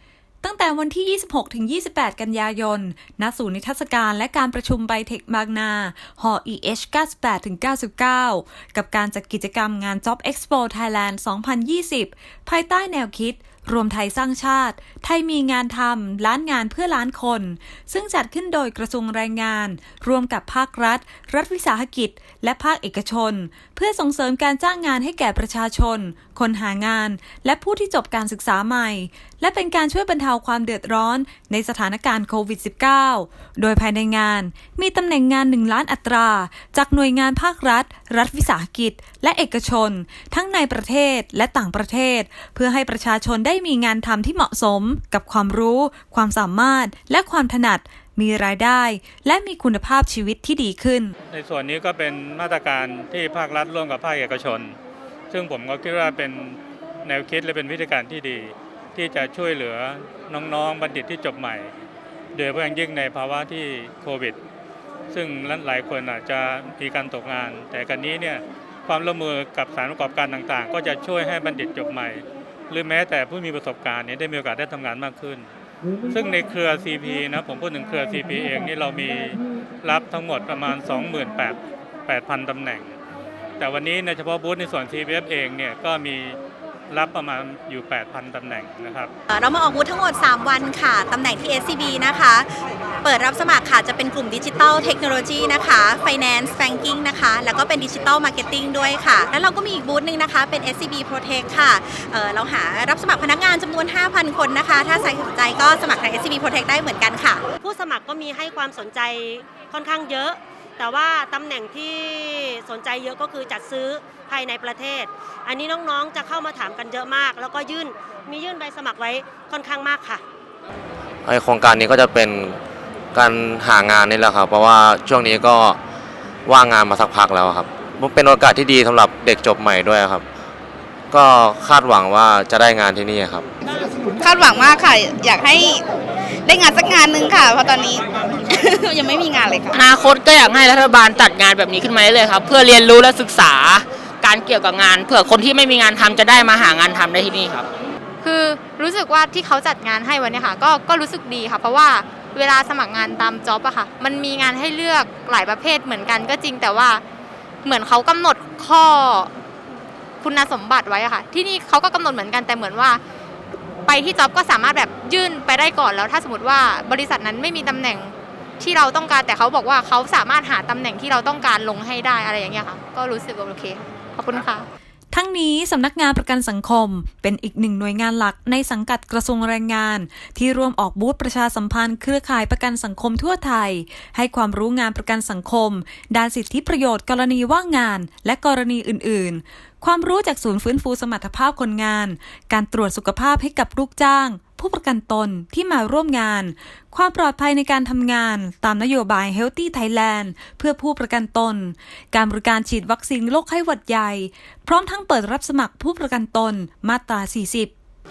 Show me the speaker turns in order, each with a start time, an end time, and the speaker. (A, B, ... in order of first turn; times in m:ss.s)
0:00.4-0:51.2 A
0:51.3-0:54.8 B
0:55.3-1:01.7 B
1:02.3-1:04.4 B
1:05.1-1:15.5 B
1:16.1-1:23.0 B
1:23.6-1:26.4 B
1:26.9-1:29.1 B
1:29.3-1:32.5 C
1:33.0-1:47.4 C
1:47.6-2:00.2 D
2:01.3-2:02.6 E
2:03.1-2:05.8 E
2:06.5-2:10.2 E
2:11.1-2:13.5 E
2:14.2-2:15.8 F
2:16.4-2:19.8 F
2:19.8-2:27.7 G
2:28.2-2:37.0 H
2:37.6-2:39.3 H
2:40.2-2:43.0 H
2:43.9-2:54.7 H
2:55.1-3:27.7 A